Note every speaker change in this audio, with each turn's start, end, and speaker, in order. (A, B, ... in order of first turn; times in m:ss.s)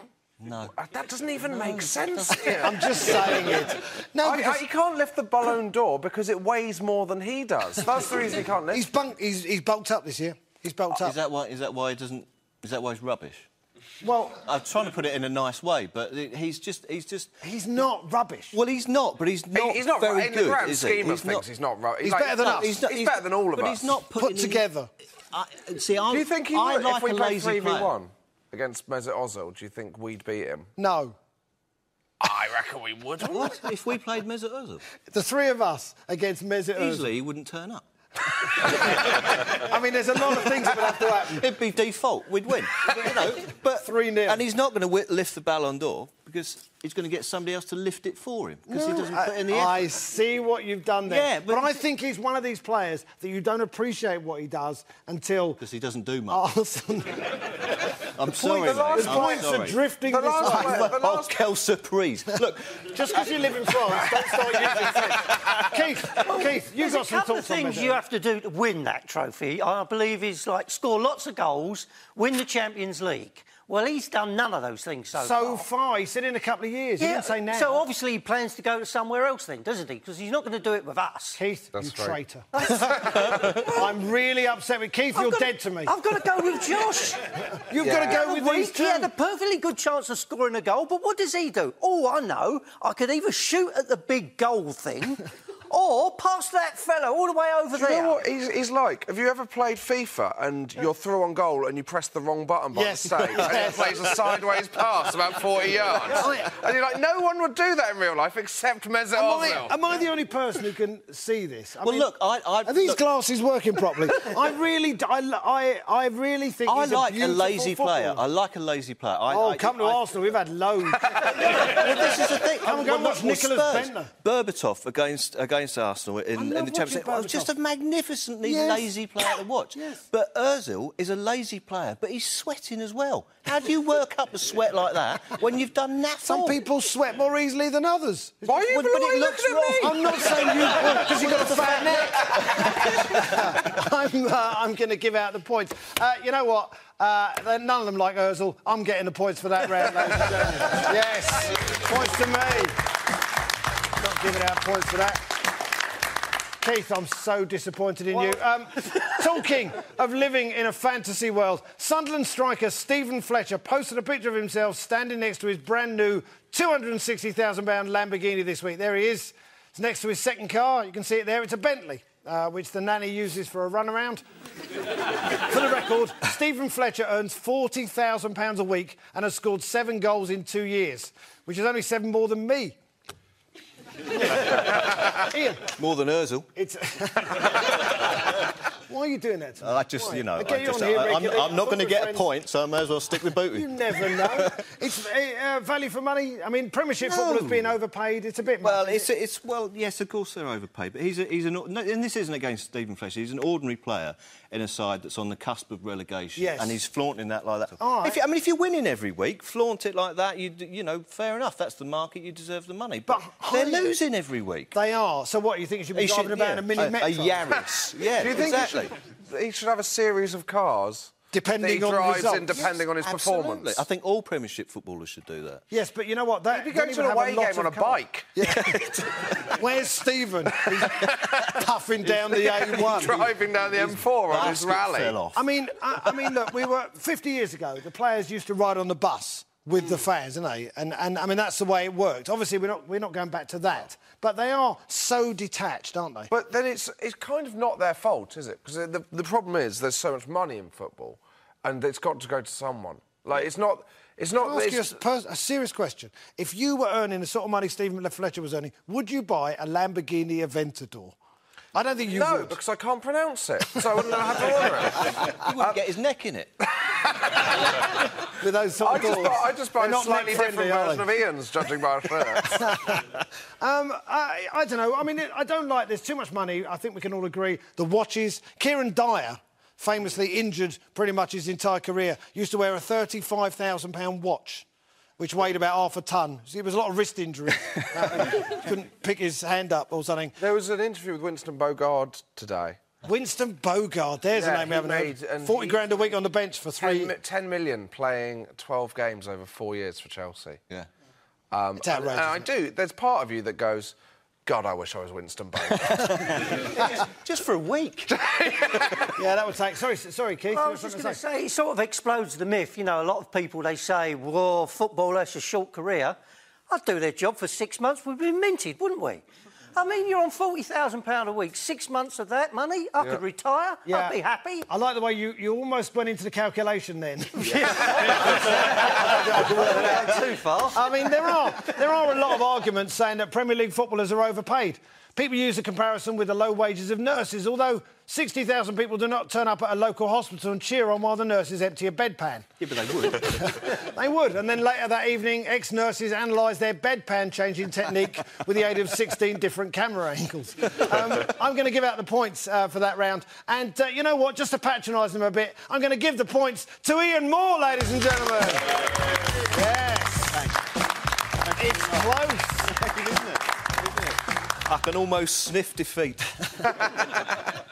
0:00.4-0:00.7 A
0:00.7-0:03.6 B
0:01.4-0:03.3 A
0:02.6-0:04.6 C
0:04.2-0:08.9 B
0:08.7-0:11.2 C
0:10.9-0:13.5 A
0:14.0-0:14.4 C
0:14.4-0:17.3 A
0:17.4-0:18.6 C
0:18.5-0:21.4 A
0:19.5-0:24.0 B
0:22.0-0:22.8 C
0:22.4-0:24.7 A
0:24.2-0:24.9 C
0:25.3-0:28.0 A
0:26.1-0:30.7 B
0:30.8-0:31.2 C
0:32.2-0:33.6 B
0:33.2-0:34.8 A
0:35.1-0:37.1 C
0:36.8-0:37.8 A
0:38.6-0:41.5 C
0:41.2-0:49.9 A
0:43.8-0:44.4 C
0:48.7-0:55.6 C
0:51.0-0:51.8 A
0:55.6-0:56.4 A
0:56.3-0:57.6 C
0:58.0-0:59.8 A
0:58.4-1:01.4 B
0:58.9-1:00.9 C
1:00.4-1:03.4 A
1:02.9-1:08.0 C
1:05.2-1:05.6 A
1:06.2-1:15.7 D
1:15.2-1:17.8 C
1:17.0-1:21.4 D
1:21.4-1:25.9 C
1:21.7-1:22.2 B
1:22.5-1:23.7 D
1:23.1-1:23.7 B
1:25.1-1:38.2 D
1:27.7-1:29.1 C
1:27.8-1:28.2 B
1:37.8-1:49.8 B
1:42.7-1:44.3 C
1:46.1-1:46.5 C
1:49.2-1:52.1 C
1:51.8-1:53.0 A
1:52.6-1:58.2 C
1:56.7-2:00.2 A
1:59.3-2:04.1 C
2:01.3-2:16.6 A
2:06.4-2:07.5 C
2:08.4-2:08.9 C
2:09.8-2:10.0 C
2:16.2-2:18.6 C
2:18.4-2:20.8 B
2:18.6-2:23.7 A
2:19.8-2:32.8 C
2:34.0-2:35.4 C
2:36.6-2:54.2 C
2:55.3-3:02.8 C
3:04.2-3:04.6 C
3:04.4-3:04.7 A
3:05.2-3:05.7 C
3:05.6-3:06.5 A
3:06.6-3:07.9 C
3:08.9-3:12.3 C
3:09.6-3:14.6 A
3:13.5-3:19.1 C
3:17.0-3:17.7 A
3:18.6-3:34.8 A
3:26.4-3:26.8 C
3:27.8-3:28.2 C
3:33.1-3:34.0 C
3:34.7-3:37.4 C
3:35.9-3:38.9 A
3:38.0-3:43.8 B
3:41.3-3:42.7 C
3:42.6-3:45.6 A
3:45.7-3:53.3 C
3:46.5-3:48.3 B
3:48.4-3:49.6 A
3:50.8-3:51.6 B
3:52.3-3:55.2 B
3:52.5-3:55.4 A
3:55.4-4:06.3 C
3:56.0-3:56.4 A
4:06.3-4:15.0 B
4:14.4-4:21.2 C
4:21.7-4:22.6 C
4:22.1-4:25.8 B
4:25.0-4:26.5 A
4:26.8-4:27.6 B
4:28.4-4:31.1 C
4:28.8-4:32.7 B
4:32.4-4:44.7 C
4:45.2-4:50.4 C
4:50.4-4:52.8 B
4:53.0-4:57.1 C
4:54.3-4:56.1 B
4:56.8-5:00.6 B
5:01.5-5:04.0 B
5:01.8-5:02.5 C
5:04.5-5:06.6 B
5:05.9-5:08.1 A
5:08.1-5:09.2 B
5:09.2-5:11.2 C
5:10.5-5:16.2 D
5:16.7-5:19.2 D
5:19.8-5:24.7 D
5:23.9-5:24.2 C
5:24.7-5:30.1 C
5:27.5-5:30.8 D
5:30.7-5:42.5 C
5:42.6-5:43.8 A
5:43.2-5:58.8 C
5:59.3-6:00.5 C
6:01.4-6:02.1 A
6:01.6-6:02.8 C
6:02.7-6:06.9 A